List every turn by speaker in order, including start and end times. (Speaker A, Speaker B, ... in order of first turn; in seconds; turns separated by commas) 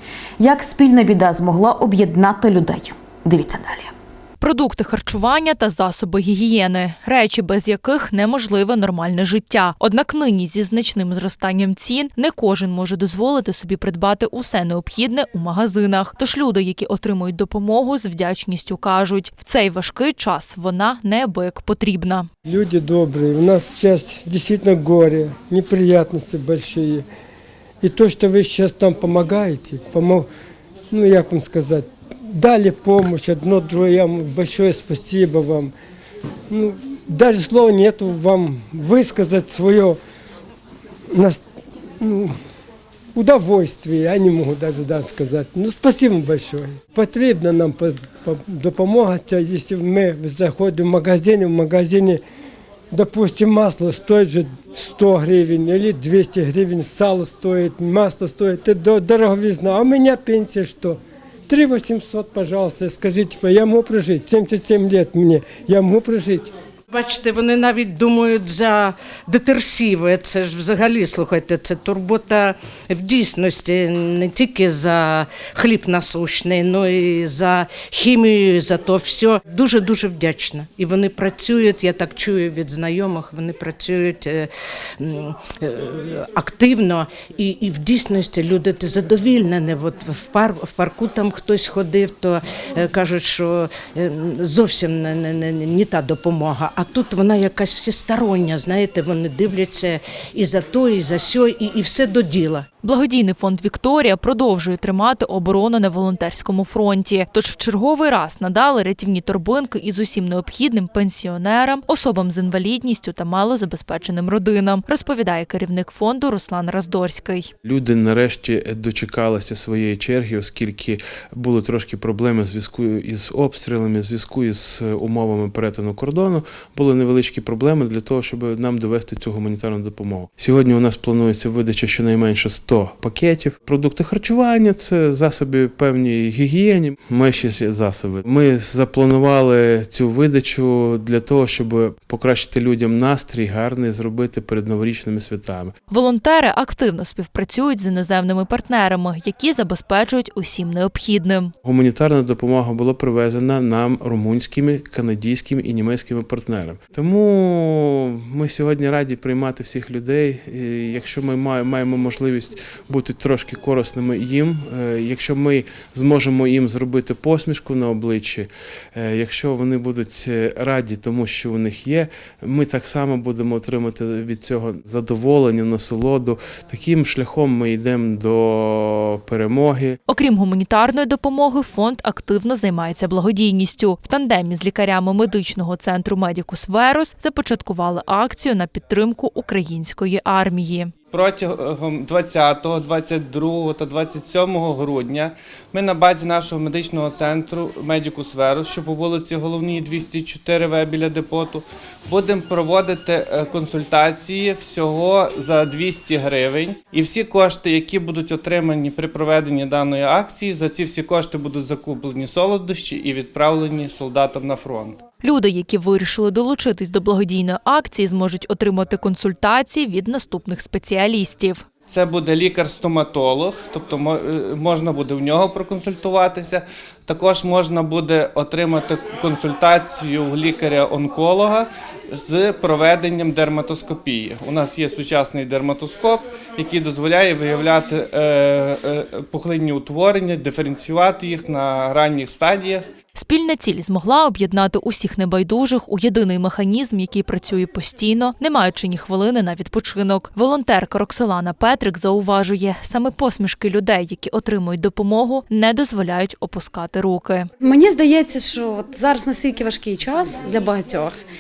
Speaker A: 0.4-3.9, Speaker B: 4.4-22.3, Speaker C: 22.5-27.0, Speaker C: 27.8-30.3, Speaker C: 30.9-35.7, Speaker C: 36.5-40.0, Speaker C: 41.1-41.4, Speaker C: 42.0-42.3, Speaker C: 43.1-52.2, Speaker C: 52.9-66.5, Speaker D: 66.9-102.7, Speaker B: 102.8-117.5, Speaker E: 117.6-145.7, Speaker B: 145.9-151.5, Speaker E: 151.6-180.0, Speaker B: 180.1-190.9, Speaker F: 191.1-215.0, Speaker B: 215.2-221.6, Speaker F: 221.9-242.8, Speaker B: 243.1-257.5, Speaker G: 257.6-261.2